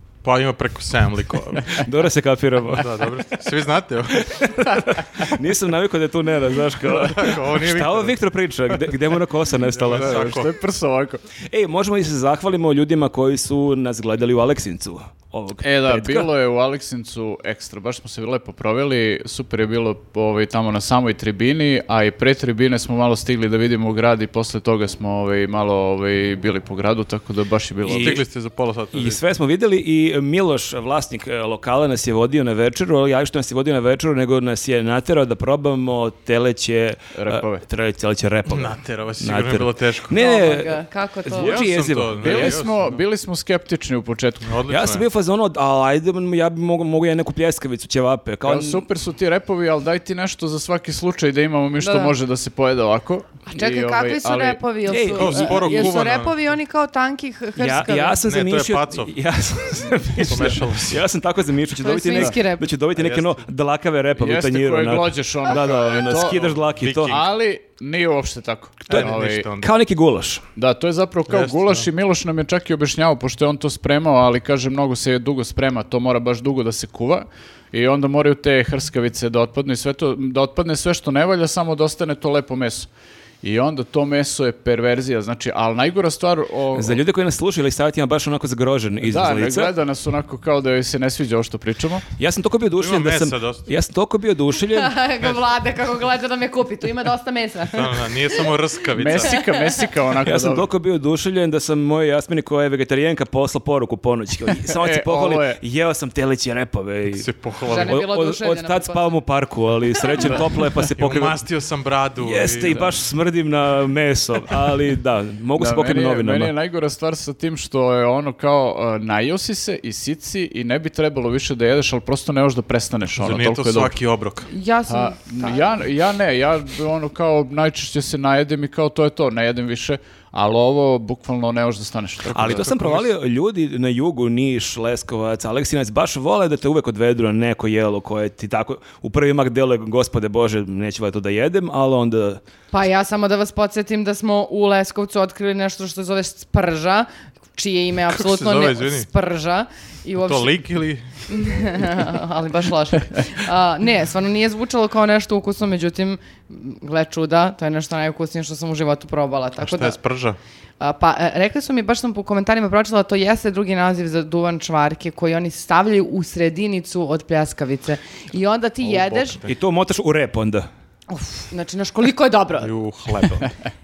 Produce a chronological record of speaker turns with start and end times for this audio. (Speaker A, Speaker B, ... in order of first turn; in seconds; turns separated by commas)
Speaker A: 0.2-1.9, Speaker B: 1.8-3.4, Speaker A: 2.7-4.4, Speaker B: 4.2-10.3, Speaker A: 6.8-8.1, Speaker A: 9.7-10.5, Speaker C: 9.9-11.2, Speaker B: 11.5-16.3, Speaker C: 15.6-28.2, Speaker B: 27.8-28.2, Speaker A: 27.9-29.2, Speaker B: 28.9-42.6, Speaker C: 37.1-37.6, Speaker A: 38.5-40.1, Speaker D: 40.1-41.6, Speaker A: 41.3-43.0, Speaker C: 42.2-44.6, Speaker A: 44.5-45.0, Speaker B: 44.7-48.8, Speaker C: 48.4-54.6, Speaker D: 51.8-52.1, Speaker D: 53.5-58.2, Speaker B: 54.9-56.0, Speaker A: 55.1-56.5, Speaker B: 57.6-67.2, Speaker A: 58.2-59.1, Speaker A: 60.2-61.0, Speaker D: 61.8-62.6, Speaker A: 63.0-63.4, Speaker C: 64.2-69.5, Speaker A: 66.7-67.2, Speaker B: 68.8-70.4, Speaker A: 68.9-69.7, Speaker C: 70.6-82.9, Speaker A: 71.3-71.8, Speaker C: 83.4-87.0, Speaker B: 86.7-89.8, Speaker C: 89.0-92.0, Speaker B: 92.2-95.0, Speaker A: 92.8-93.7, Speaker D: 94.7-98.5, Speaker A: 97.7-99.4, Speaker C: 99.0-100.7, Speaker D: 99.1-99.8, Speaker B: 100.2-111.4, Speaker C: 104.7-105.6, Speaker A: 107.1-108.0, Speaker D: 107.7-109.2, Speaker D: 110.0-110.4, Speaker A: 110.9-112.8, Speaker B: 112.2-116.5, Speaker C: 112.7-112.9, Speaker C: 115.6-123.9, Speaker A: 123.2-124.5, Speaker D: 124.5-125.8, Speaker C: 124.9-132.7, Speaker B: 132.3-142.4, Speaker A: 132.3-133.1, Speaker D: 142.7-150.6, Speaker A: 148.1-149.1, Speaker A: 150.2-151.3, Speaker D: 151.3-160.0, Speaker A: 159.6-160.4, Speaker D: 160.8-169.4, Speaker A: 168.8-169.5, Speaker B: 169.5-170.7, Speaker D: 171.1-172.7, Speaker A: 172.6-173.5